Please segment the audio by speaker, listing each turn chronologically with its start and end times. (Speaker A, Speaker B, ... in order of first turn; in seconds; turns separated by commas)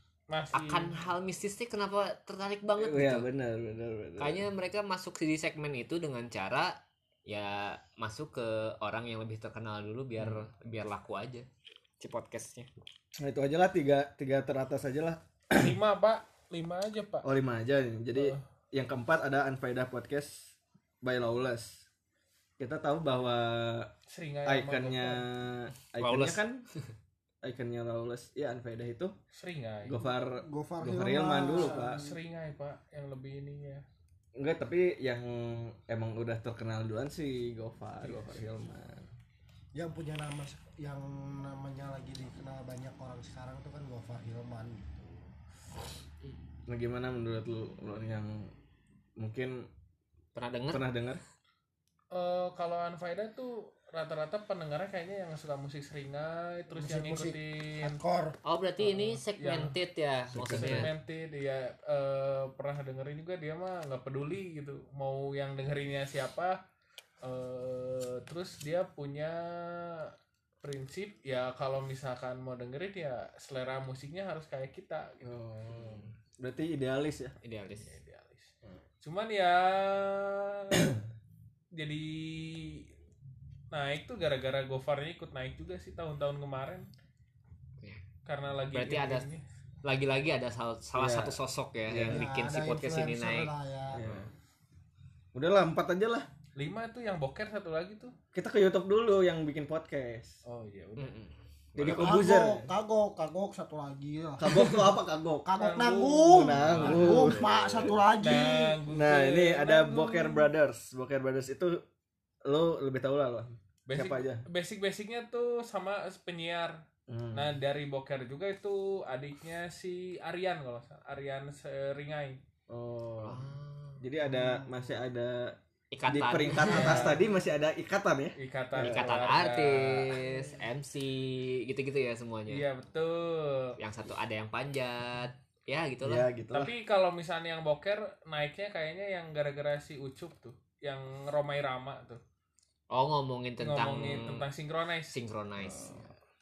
Speaker A: 0.3-1.0, Speaker B: 0.5-3.3, Speaker C: 2.8-4.5, Speaker B: 4.2-11.5, Speaker C: 10.2-10.4, Speaker B: 12.0-12.7, Speaker C: 13.2-15.8, Speaker A: 15.6-17.3, Speaker C: 17.2-21.9, Speaker A: 18.1-18.4, Speaker C: 22.6-23.9, Speaker A: 24.1-25.3, Speaker C: 24.4-26.6, Speaker B: 26.0-26.4, Speaker C: 27.4-29.1, Speaker A: 29.3-30.0, Speaker C: 29.9-32.0, Speaker D: 30.4-32.1, Speaker A: 31.5-33.9, Speaker C: 34.4-39.1, Speaker D: 39.8-45.3, Speaker C: 46.7-48.5, Speaker C: 49.2-49.7, Speaker B: 50.4-50.9, Speaker C: 50.7-51.2, Speaker A: 52.1-58.0, Speaker D: 56.7-58.4, Speaker B: 58.5-60.9, Speaker A: 58.8-59.7, Speaker C: 60.3-60.9, Speaker A: 60.5-66.6, Speaker A: 67.2-75.3, Speaker C: 75.2-77.3, Speaker B: 77.4-78.0, Speaker A: 77.8-78.5, Speaker A: 79.0-81.0, Speaker A: 81.7-82.9, Speaker A: 83.7-86.9, Speaker A: 88.2-89.4, Speaker B: 88.7-89.3, Speaker B: 89.8-93.5, Speaker C: 91.0-92.3, Speaker D: 92.0-94.0, Speaker C: 93.9-94.3, Speaker C: 95.3-96.3, Speaker A: 96.6-98.1, Speaker C: 98.3-100.4, Speaker A: 100.5-101.2, Speaker B: 101.0-101.3, Speaker C: 101.8-102.7, Speaker D: 101.8-104.8, Speaker C: 104.4-105.5, Speaker D: 105.5-108.8, Speaker A: 105.6-107.3, Speaker C: 106.3-107.9, Speaker B: 106.7-107.5, Speaker A: 108.2-110.5, Speaker C: 108.9-111.8, Speaker C: 112.5-114.4, Speaker A: 113.9-116.8, Speaker C: 117.1-117.5, Speaker A: 117.3-122.4, Speaker C: 122.7-123.5, Speaker B: 123.3-124.0, Speaker C: 124.0-129.2, Speaker B: 125.9-127.2, Speaker A: 126.6-127.2, Speaker A: 128.4-130.2, Speaker B: 128.8-132.7, Speaker A: 132.5-133.8, Speaker B: 133.8-136.3, Speaker C: 136.0-136.7, Speaker A: 136.5-142.2, Speaker B: 142.9-144.5, Speaker A: 143.6-145.2, Speaker B: 145.1-146.1, Speaker C: 145.7-146.0